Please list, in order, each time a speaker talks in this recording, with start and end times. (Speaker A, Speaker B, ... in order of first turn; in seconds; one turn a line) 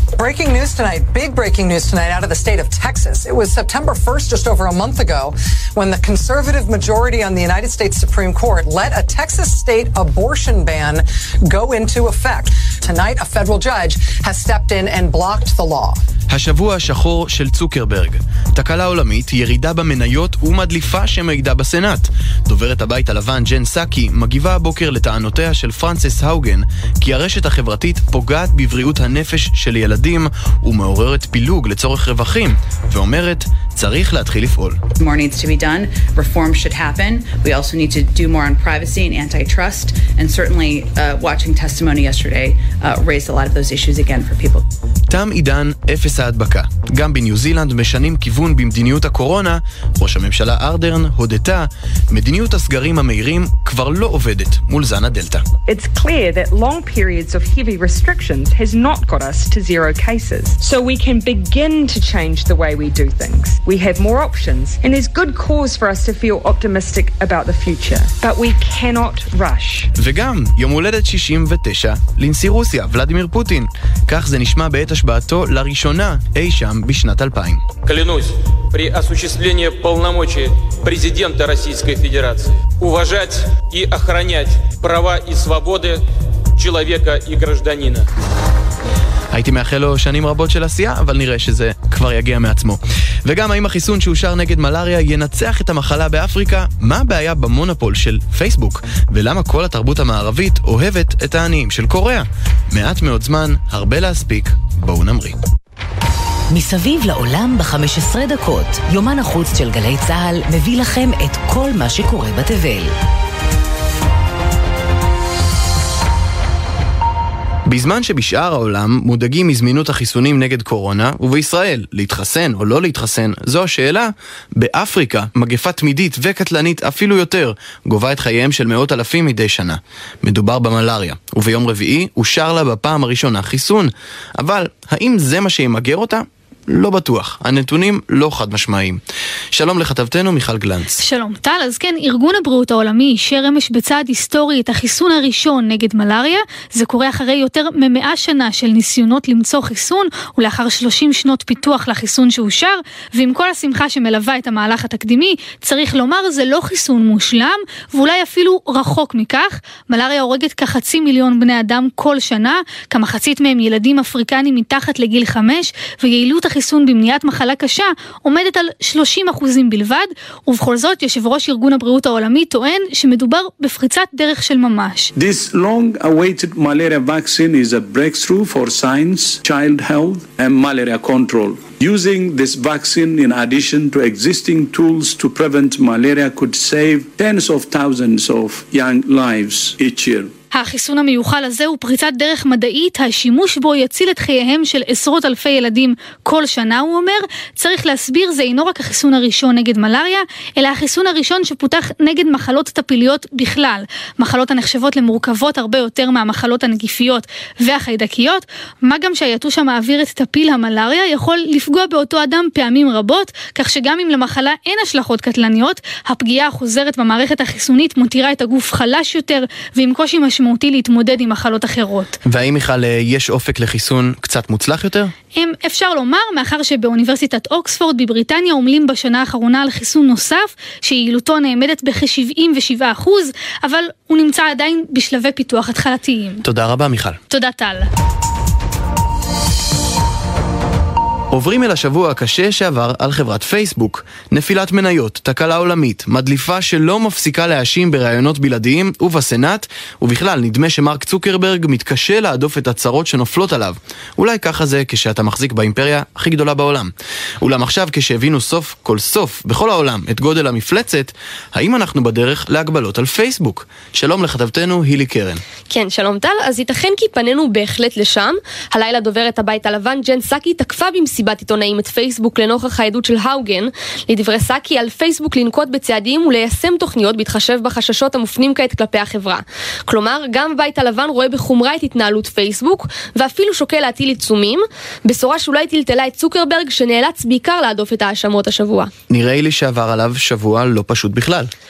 Speaker A: 0.2-5.3
Speaker A: 6.0-16.0
Speaker B: 16.3-34.8
Speaker C: 35.0-44.6
Speaker B: 45.1-55.4
Speaker D: 55.7-69.9
Speaker B: 70.0-77.6
Speaker E: 77.8-86.0
Speaker E: 86.6-88.0
Speaker B: 89.3-105.4
Speaker F: 106.5-112.9
Speaker B: 117.7-139.0
Speaker B: 139.5-141.0
Speaker G: 141.0-175.1
Speaker H: 175.2-190.3
Speaker G: 190.5-222.2
Speaker B: 222.2-225.1
Speaker G: 225.3-236.4
Speaker B: 236.4-237.2
Speaker G: 237.3-237.9
Speaker B: 241.3-265.4
Speaker I: 265.7-288.9
Speaker B: 289.1-291.5